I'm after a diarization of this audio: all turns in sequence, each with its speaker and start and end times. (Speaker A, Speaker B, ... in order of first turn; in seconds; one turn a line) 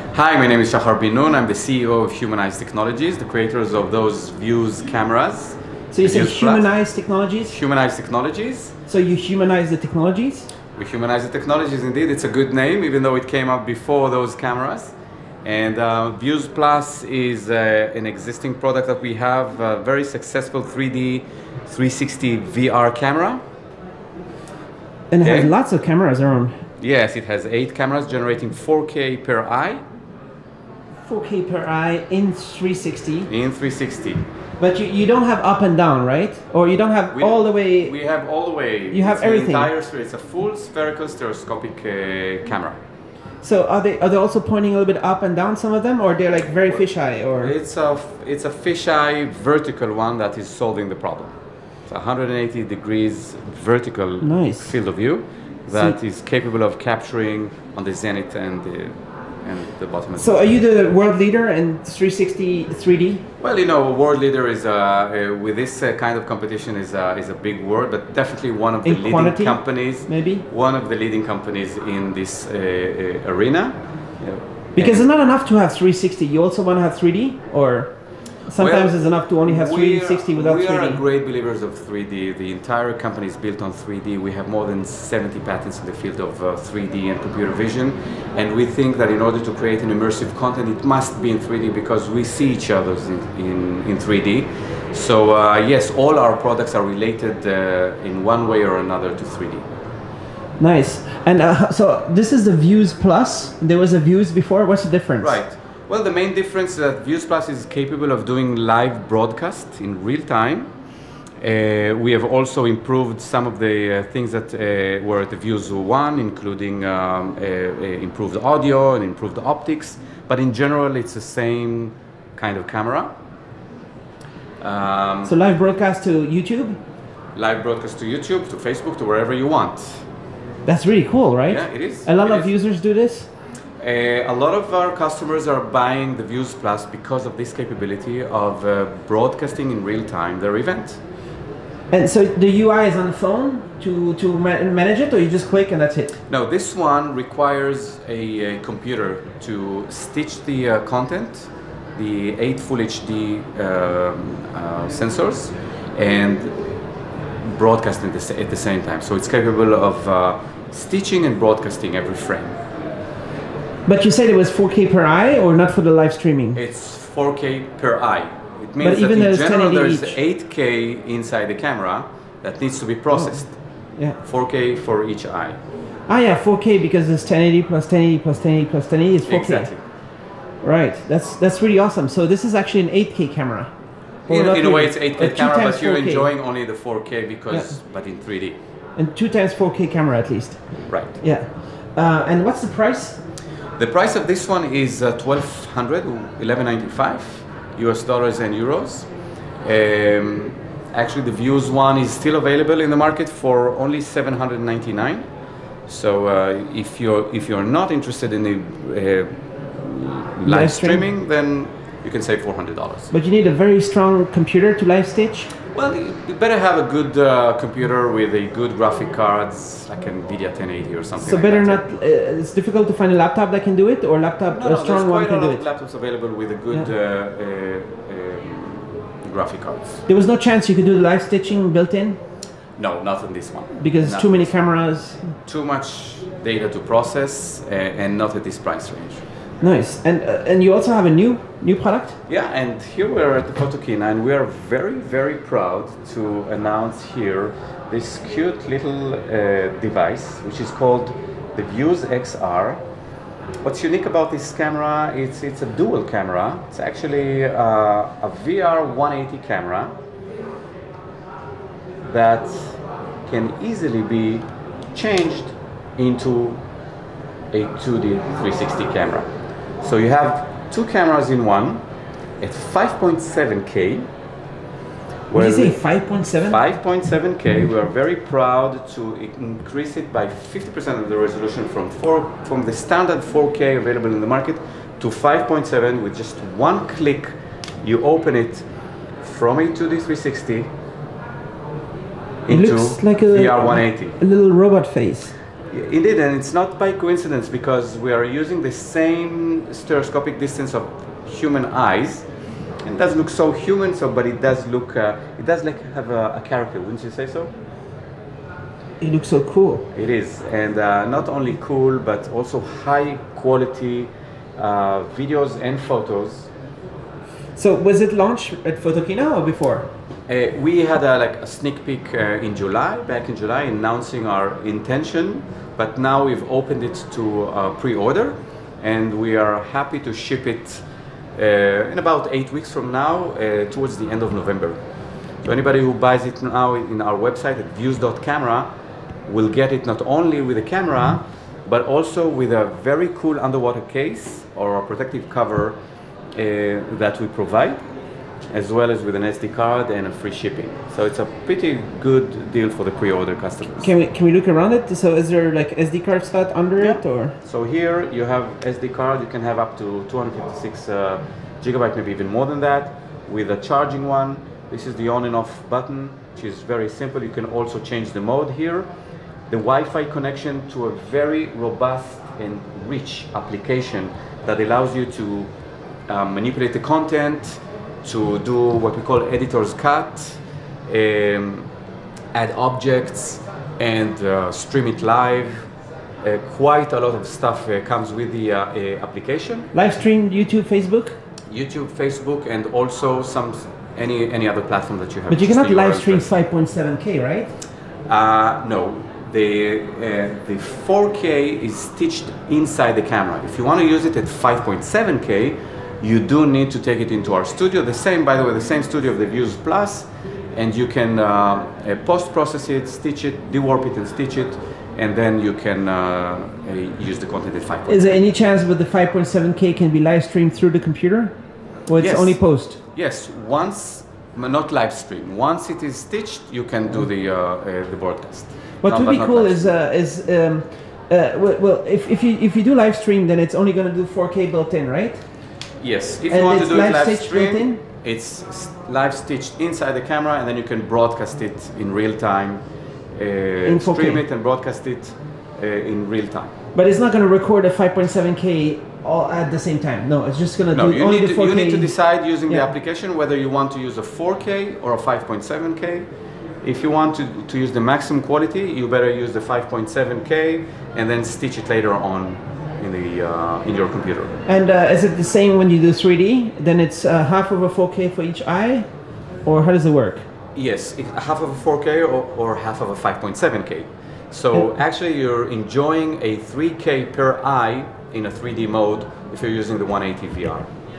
Speaker A: 0.1-6.7
Speaker B: 5.9-7.5
Speaker A: 7.5-8.7
Speaker B: 8.9-10.5
Speaker A: 10.8-23.4
Speaker B: 25.1-26.6
Speaker A: 25.2-25.5
Speaker A: 26.8-29.8
Speaker B: 31.1-33.3
Speaker A: 33.3-34.2
Speaker B: 34.6-37.9
Speaker A: 37.1-42.8
Speaker B: 38.9-39.7
Speaker B: 43.4-47.5
Speaker A: 46.6-46.8
Speaker A: 47.4-51.3
Speaker A: 51.9-58.9
Speaker B: 54.2-54.7
Speaker B: 55.7-56.0
Speaker A: 59.4-60.5
Speaker B: 60.2-63.2
Speaker A: 63.4-75.1
Speaker B: 68.8-70.4
Speaker B: 74.8-77.9
Speaker B: 78.5-81.0
Speaker A: 78.6-99.6
Speaker B: 100.6-105.4
Speaker A: 105.2-110.7
Speaker A: 111.4-123.1
Speaker A: 124.6-125.3
Speaker B: 125.2-126.8
Speaker A: 127.3-130.0
Speaker B: 130.7-133.3
Speaker A: 131.5-132.5
Speaker A: 133.8-141.0
Speaker B: 141.9-146.2
Speaker A: 146.3-156.7
Speaker A: 157.4-162.6
Speaker B: 163.8-166.6
Speaker A: 166.5-173.6
Speaker B: 168.8-170.2
Speaker B: 173.1-173.4
Speaker A: 174.2-175.6
Speaker B: 176.1-179.7
Speaker A: 179.3-179.8
Speaker B: 180.6-183.7
Speaker B: 184.3-186.3
Speaker A: 184.3-188.5
Speaker B: 187.5-187.8
Speaker B: 189.0-193.2
Speaker A: 190.9-191.1
Speaker A: 193.8-199.1
Speaker A: 199.6-205.2
Speaker A: 205.9-213.1
Speaker B: 210.4-211.1
Speaker B: 213.1-215.5
Speaker A: 215.7-221.8
Speaker B: 221.2-225.6
Speaker A: 224.5-230.0
Speaker B: 230.1-232.2
Speaker A: 232.8-234.5
Speaker B: 233.8-235.3
Speaker A: 235.4-239.2
Speaker B: 239.6-242.2
Speaker A: 242.3-252.8
Speaker A: 253.6-259.9
Speaker A: 262.1-266.6
Speaker A: 267.5-269.3
Speaker A: 269.8-271.8
Speaker A: 272.4-274.1
Speaker A: 275.3-275.8
Speaker B: 275.3-276.6
Speaker A: 276.5-287.3
Speaker A: 287.8-288.6
Speaker A: 289.2-290.7
Speaker A: 292.4-294.1
Speaker B: 292.5-295.3
Speaker A: 295.7-302.2
Speaker A: 302.9-307.5
Speaker B: 309.0-309.9
Speaker A: 309.9-316.5
Speaker B: 317.6-319.9
Speaker A: 320.3-330.8
Speaker A: 331.4-334.8
Speaker A: 335.4-338.7
Speaker A: 339.3-345.8
Speaker A: 346.3-347.8
Speaker A: 348.5-353.9
Speaker B: 353.8-357.3
Speaker A: 356.8-368.9
Speaker A: 369.5-375.5
Speaker A: 376.1-381.7
Speaker A: 382.3-385.7
Speaker A: 386.2-389.7
Speaker B: 389.7-391.2
Speaker A: 391.5-396.2
Speaker B: 395.3-397.5
Speaker A: 398.1-418.2
Speaker B: 417.9-421.4
Speaker B: 421.9-422.8
Speaker A: 422.0-429.7
Speaker B: 428.8-435.2
Speaker A: 435.8-442.6
Speaker B: 436.3-437.8
Speaker A: 443.1-446.5
Speaker B: 443.6-444.2
Speaker B: 446.7-452.7
Speaker A: 450.7-456.1
Speaker A: 456.6-464.4
Speaker B: 464.4-468.9
Speaker B: 469.4-470.2
Speaker A: 470.5-480.7